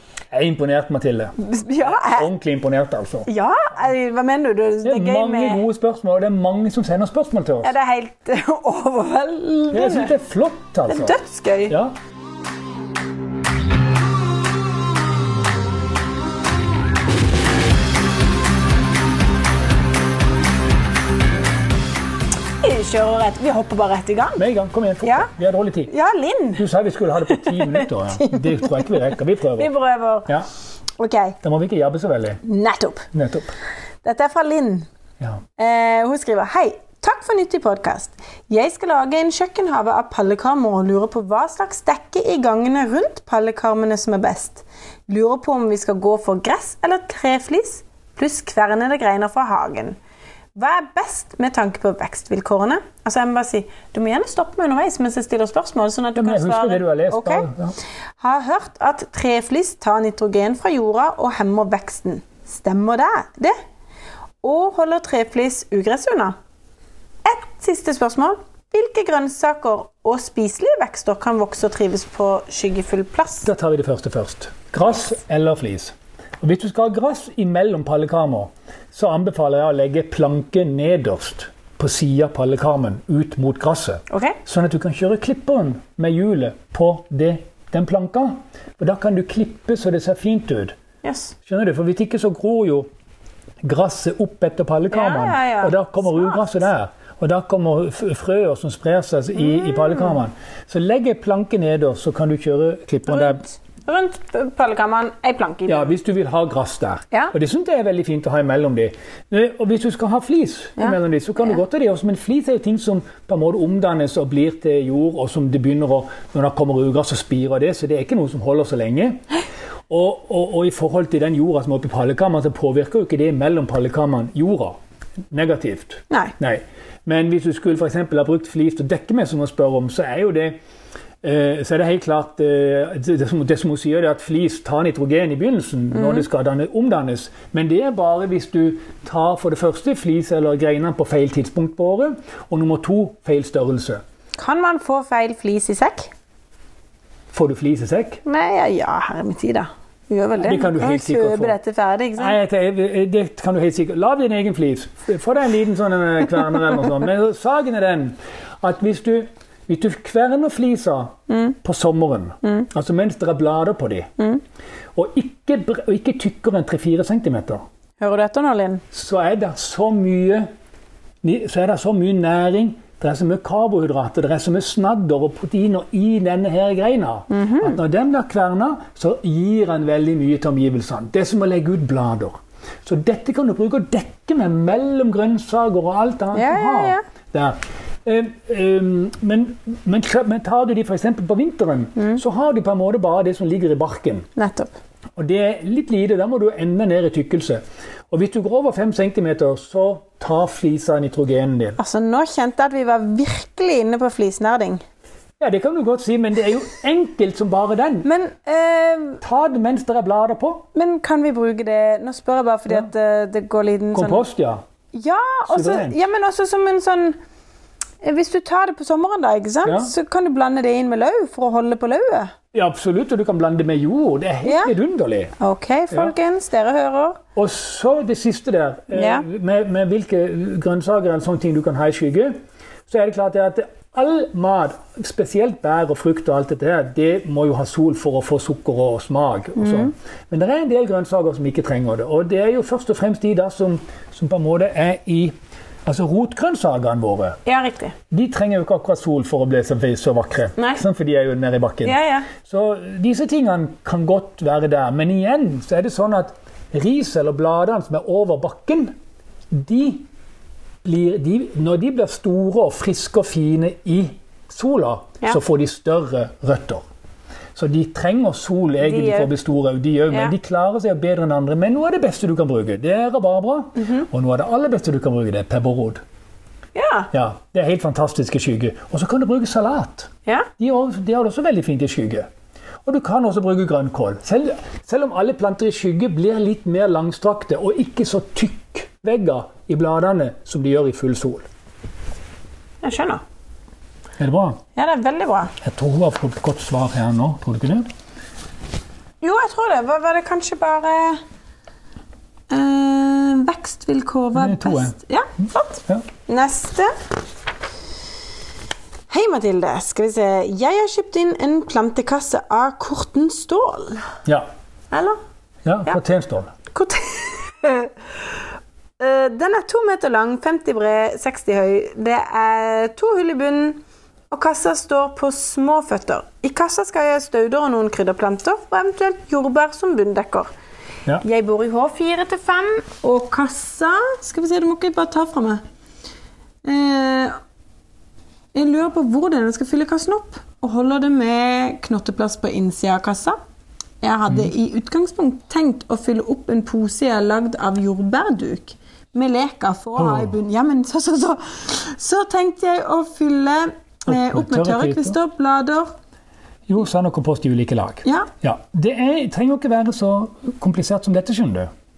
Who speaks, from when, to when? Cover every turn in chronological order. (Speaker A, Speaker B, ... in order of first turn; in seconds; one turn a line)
Speaker A: 0.3-3.3
Speaker B: 1.4-2.3
Speaker B: 3.2-5.6
Speaker A: 4.8-7.7
Speaker B: 7.6-10.1
Speaker A: 9.7-11.2
Speaker B: 10.9-11.8
Speaker A: 11.7-11.9
Speaker B: 22.6-24.4
Speaker A: 24.4-25.9
Speaker B: 25.0-25.3
Speaker B: 25.9-26.6
Speaker A: 26.6-29.7
Speaker B: 27.3-28.9
Speaker B: 29.6-30.3
Speaker B: 31.0-31.4
Speaker A: 31.4-32.4
Speaker B: 32.4-33.1
Speaker A: 33.1-33.5
Speaker B: 34.0-34.9
Speaker B: 35.6-50.0
Speaker B: 50.5-57.5
Speaker A: 56.1-57.7
Speaker B: 58.2-63.5
Speaker B: 64.4-66.3
Speaker B: 67.2-73.5
Speaker A: 73.4-90.7
Speaker B: 84.1-84.4
Speaker B: 91.0-91.3
Speaker A: 91.5-92.9
Speaker A: 93.6-103.4
Speaker B: 94.9-96.6
Speaker B: 99.6-100.0
Speaker B: 103.1-105.9
Speaker A: 105.7-119.2
Speaker A: 119.9-124.8
Speaker A: 125.3-130.6
Speaker A: 131.2-144.0
Speaker B: 135.9-136.2
Speaker B: 144.4-146.1
Speaker A: 147.3-148.2
Speaker B: 148.2-152.4
Speaker A: 150.4-151.6
Speaker A: 152.2-164.1
Speaker B: 161.3-161.6
Speaker A: 164.9-167.6
Speaker B: 168.0-168.8
Speaker A: 168.9-170.4
Speaker A: 171.2-194.2
Speaker B: 177.3-177.8
Speaker B: 186.3-187.0
Speaker B: 194.3-194.7
Speaker A: 195.2-201.8
Speaker B: 201.8-204.8
Speaker A: 205.4-208.1
Speaker B: 208.0-209.2
Speaker A: 209.2-210.6
Speaker B: 210.7-214.2
Speaker A: 213.9-214.6
Speaker B: 214.9-217.2
Speaker A: 215.5-216.0
Speaker B: 218.0-222.3
Speaker A: 219.6-219.9
Speaker A: 222.5-225.3
Speaker B: 224.4-224.7
Speaker B: 225.4-227.2
Speaker A: 227.3-232.3
Speaker B: 228.9-229.2
Speaker A: 232.9-245.3
Speaker B: 239.6-239.9
Speaker A: 245.8-247.4
Speaker B: 247.4-247.9
Speaker A: 248.1-258.9
Speaker B: 250.6-250.8
Speaker B: 251.8-252.3
Speaker A: 259.5-260.0
Speaker A: 260.8-266.8
Speaker A: 267.6-276.0
Speaker B: 268.8-269.3
Speaker B: 276.7-277.1
Speaker A: 277.1-280.1
Speaker A: 280.6-282.3
Speaker A: 282.8-291.4
Speaker B: 292.8-293.2
Speaker A: 294.2-294.6
Speaker B: 294.8-295.5
Speaker A: 295.6-297.8
Speaker B: 299.2-301.2
Speaker B: 302.5-306.9
Speaker A: 304.3-305.0
Speaker B: 309.1-314.1
Speaker B: 314.9-315.2
Speaker A: 315.6-316.5
Speaker B: 316.7-317.9
Speaker B: 319.0-323.8
Speaker B: 324.3-330.5
Speaker B: 331.2-335.6
Speaker B: 336.6-337.3
Speaker B: 338.5-343.4
Speaker B: 344.0-355.9
Speaker A: 349.9-350.4
Speaker A: 354.1-355.2
Speaker A: 356.7-361.7
Speaker B: 358.0-358.3